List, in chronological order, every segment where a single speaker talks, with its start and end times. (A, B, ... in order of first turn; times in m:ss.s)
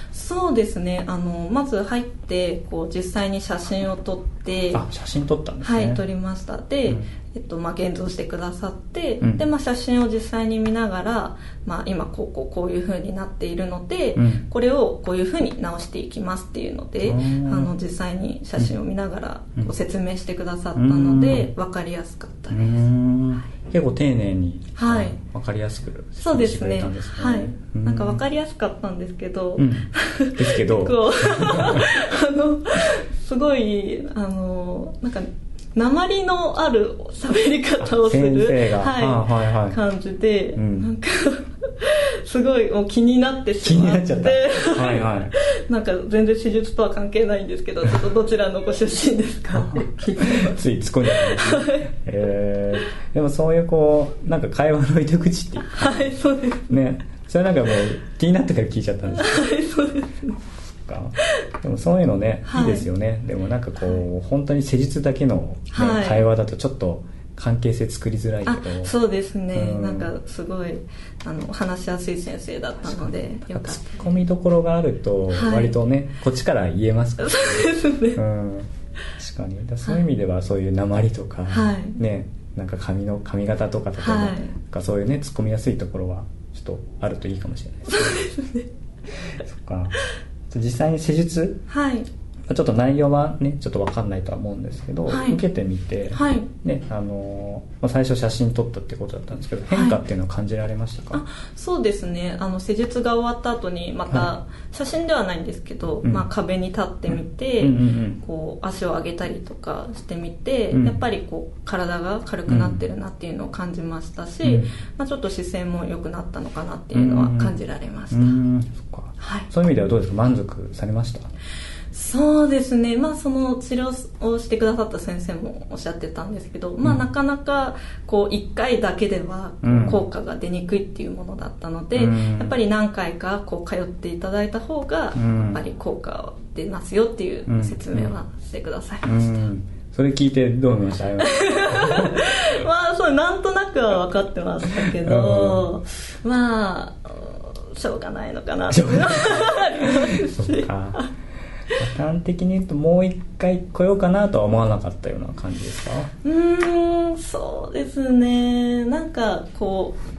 0:00.1-0:04.8 A
0:04.7-0:06.0 B
0:05.6-0:22.8 A
0:14.2-0:14.4 B
0:17.0-0:17.7 B
0:20.8-0:21.5 B
0:22.5-0:28.2 B
0:24.8-0:25.2 A
0:26.2-0:51.9 A
0:29.6-0:31.9 B
0:37.8-0:39.8 B
0:40.6-0:40.9 B
0:43.6-0:45.3 B
0:49.6-0:56.2 B
0:55.6-0:56.8 A
0:56.7-0:59.5 B
0:59.1-1:00.4 A
1:00.6-1:08.9 B
1:02.4-1:02.9 A
1:05.7-1:06.2 A
1:08.4-1:14.1 A
1:09.5-1:10.1 B
1:12.8-1:28.2 B
1:15.3-1:15.7 A
1:17.2-1:18.2 A
1:21.5-1:22.0 A
1:24.0-1:24.5 A
1:27.9-1:28.7 A
1:29.4-1:30.0 B
1:30.5-1:31.6 B
1:31.7-1:32.1 A
1:32.5-1:41.2 B
1:35.1-1:35.4 A
1:36.1-1:36.5 A
1:39.7-1:40.0 A
1:41.1-1:58.4 A
1:47.6-1:48.2 B
1:50.7-1:51.0 B
1:52.5-1:52.8 B
1:54.4-1:54.7 B
1:56.9-1:57.6 B
1:58.1-2:01.3 B
1:59.2-1:59.5 A
2:01.9-2:19.2 A
2:09.6-2:10.0 B
2:11.9-2:12.6 B
2:15.1-2:15.6 B
2:17.5-2:18.1 B
2:19.0-2:22.4 B
2:21.2-2:31.1 A
2:24.8-2:25.7 B
2:28.7-2:31.0 B
2:31.7-2:36.1 B
2:36.2-2:40.0 A